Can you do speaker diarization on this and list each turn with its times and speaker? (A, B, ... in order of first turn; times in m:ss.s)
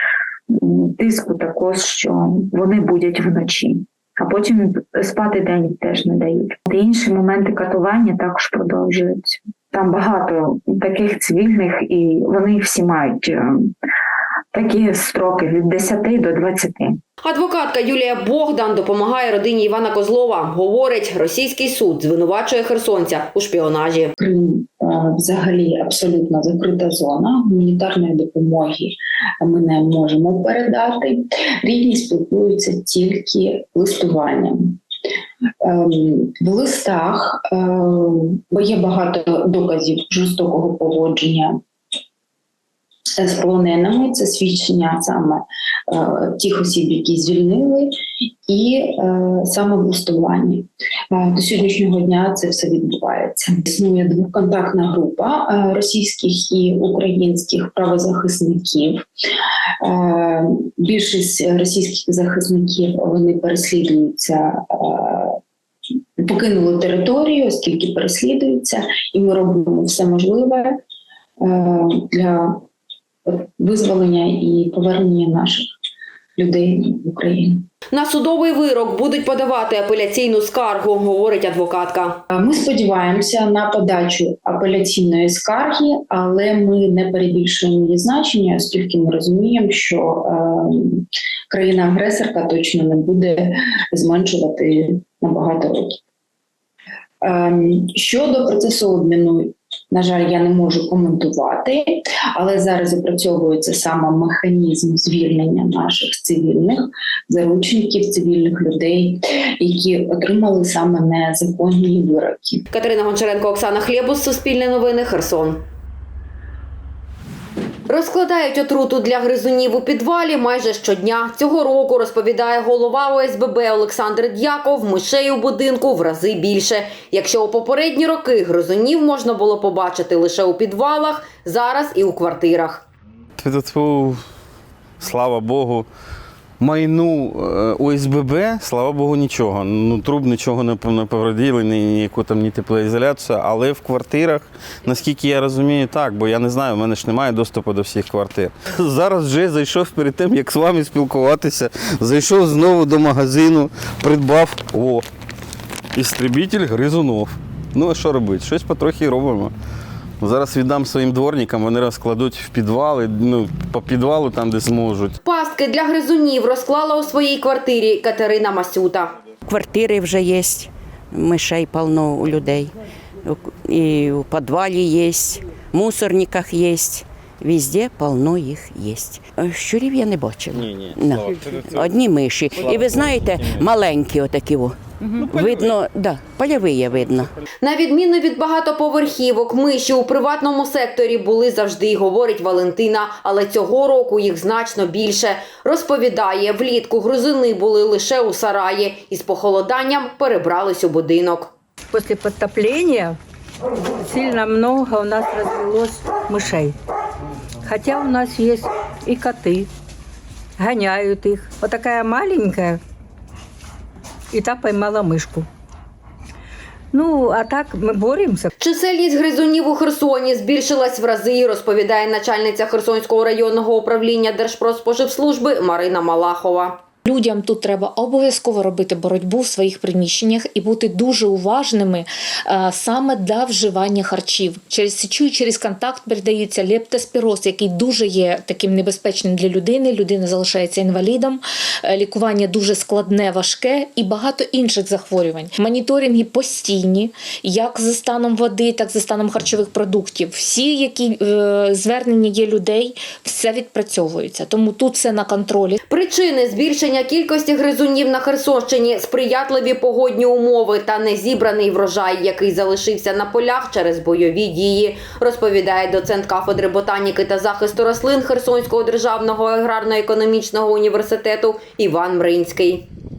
0:00.5-0:13.7 A
0:14.5-0:17.0 A
0:17.2-0:24.1 B
0:24.2-0:34.8 C
0:35.6-0:41.6 C
0:43.2-0:47.9 C
0:48.5-0:59.1 C
0:59.8-1:05.4 C
1:06.2-1:10.8 C
1:11.4-1:12.7 C
1:13.3-1:15.7 C
1:16.4-1:17.7 C
1:17.9-1:22.2 B
1:22.3-1:36.0 C
1:37.2-1:52.6 C
1:52.7-1:55.6 B
1:57.9-2:12.8 B
2:13.4-2:14.2 D
2:15.0-2:15.9 D
2:16.6-2:35.0 D
2:36.0-2:39.5 D
2:40.2-2:45.2 D
2:45.2-2:49.2 B
2:49.5-2:52.7 E
2:53.2-3:07.3 E
3:07.6-3:21.5 B
3:21.9-3:23.2 F
3:24.1-3:26.7 F
3:27.7-3:29.7 F
3:30.6-3:32.8 F
3:34.3-3:35.5 F
3:36.9-3:38.5 F
3:38.6-3:46.8 B
3:47.0-4:15.8 G
4:15.9-4:32.9 B